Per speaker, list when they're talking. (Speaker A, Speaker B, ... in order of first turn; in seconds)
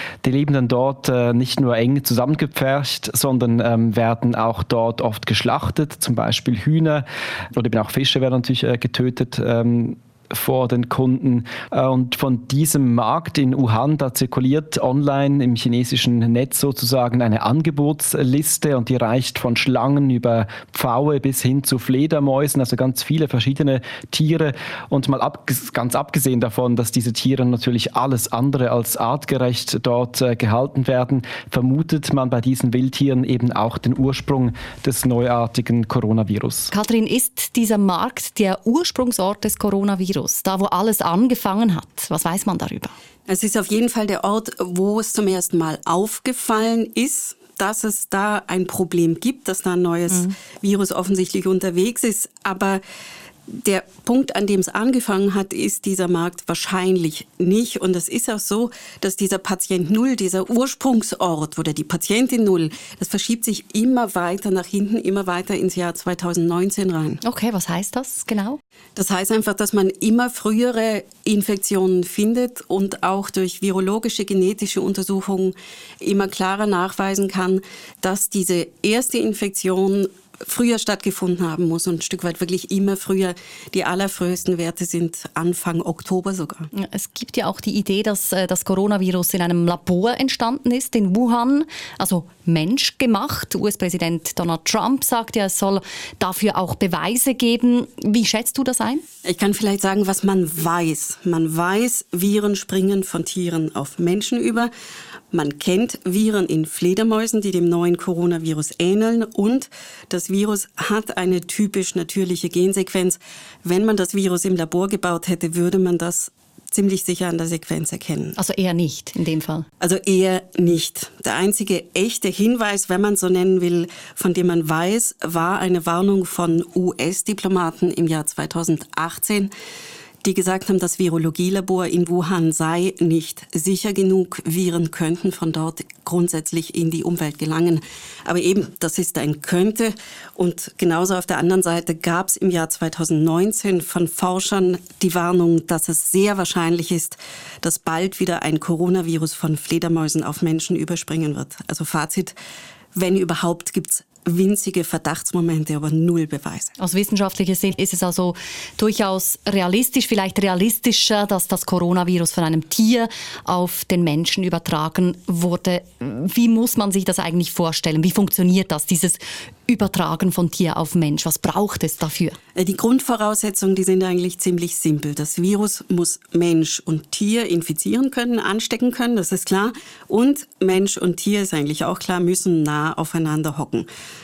Speaker A: 0.2-36.7
Speaker B: 36.7-42.9, 67.2-68.6, 86.7-99.0, 118.4-119.7, 156.8-172.4
Speaker C: 43.3-52.8, 53.5-67.2, 69.0-86.7, 99.2-104.7, 105.3-118.4, 119.8-129.5, 130.2-152.3, 152.9-156.7, 172.6-183.9